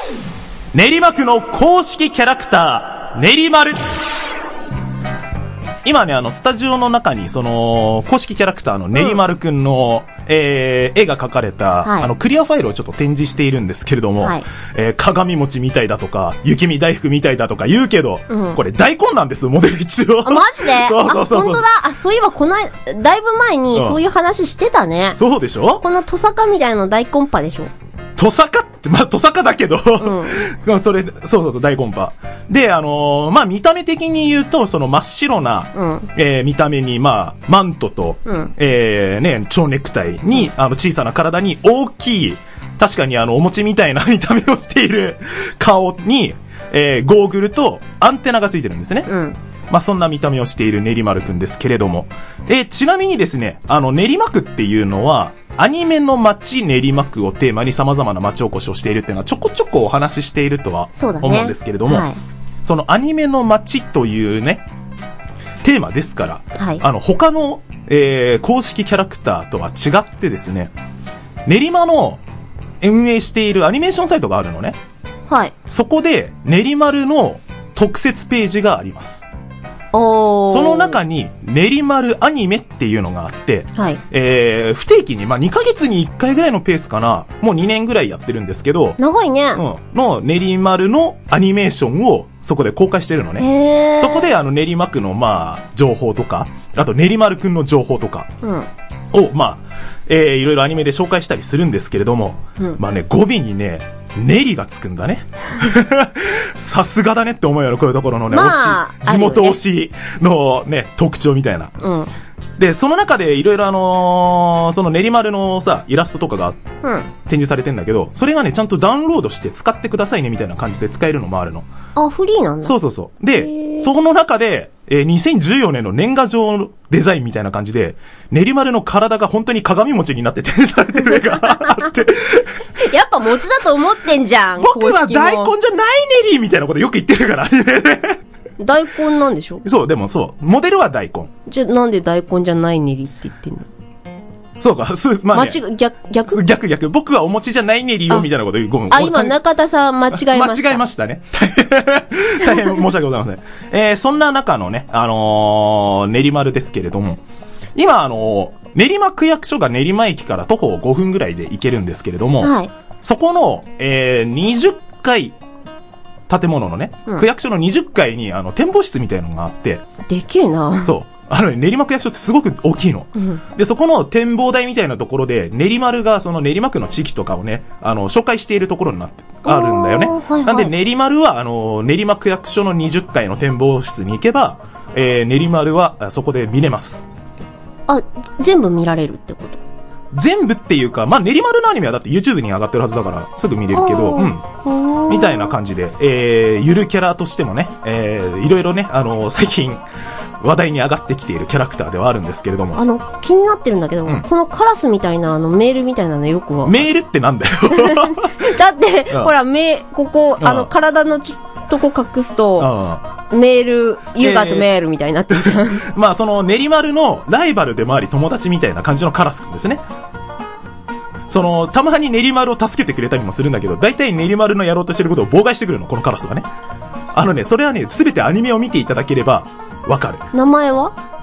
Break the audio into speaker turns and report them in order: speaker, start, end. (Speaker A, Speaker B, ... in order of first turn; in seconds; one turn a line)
Speaker A: 0.7-3.8
Speaker A: 5.8-21.6
Speaker B: 11.8-12.1
Speaker B: 14.2-14.4
Speaker B: 18.3-18.6
Speaker B: 20.2-25.2
Speaker A: 23.7-24.0
Speaker A: 25.1-25.8
Speaker B: 25.8-27.7
Speaker A: 28.2-49.1
Speaker B: 30.0-30.4
Speaker B: 35.7-36.1
Speaker B: 38.2-38.5
Speaker B: 49.1-49.4
Speaker A: 49.7-62.1
Speaker B: 61.0-62.2
Speaker A: 62.6-64.7
Speaker A: 65.6-70.7
Speaker B: 66.6-66.8
Speaker A: 71.5-72.2
Speaker A: 72.8-74.8
Speaker B: 75.3-75.5
Speaker A: 75.7-79.3
Speaker B: 79.9-81.0
Speaker A: 80.5-89.0
Speaker B: 83.7-84.0
Speaker B: 89.0-89.6
Speaker A: 89.5-98.3
Speaker B: 93.4-94.3
Speaker B: 98.4-98.7
Speaker A: 99.1-111.7
Speaker B: 108.3-109.6
Speaker B: 111.8-112.1
Speaker A: 112.6-116.6
Speaker B: 116.8-117.1
Speaker A: 117.2-121.7
Speaker B: 121.9-122.7
Speaker A: 122.6-132.5
Speaker B: 123.4-123.8
Speaker B: 132.8-135.5
Speaker A: 134.6-138.2
Speaker B: 138.6-139.6
Speaker A: 139.6-141.3
Speaker B: 141.5-143.7
Speaker A: 144.6-145.6
Speaker B: 145.3-146.4
Speaker A: 146.2-149.4
Speaker B: 148.9-150.8
Speaker A: 150.1-157.2
Speaker A: 157.7-165.3
Speaker B: 162.4-162.7
Speaker A: 166.3-169.8
Speaker B: 170.1-170.9
Speaker A: 170.8-187.1
Speaker B: 173.2-173.4
Speaker B: 179.4-180.7
Speaker B: 187.9-189.6
Speaker A: 190.1-194.5
Speaker B: 193.7-195.5
Speaker A: 195.1-199.8
Speaker A: 200.4-202.8
Speaker B: 202.7-206.8
Speaker A: 206.6-208.5
Speaker B: 207.7-212.7
Speaker A: 210.4-210.7
Speaker A: 212.6-213.0
Speaker B: 213.3-215.9
Speaker A: 214.2-214.7
Speaker A: 215.3-219.8
Speaker A: 221.3-226.4
Speaker A: 227.1-230.2
Speaker B: 230.3-230.9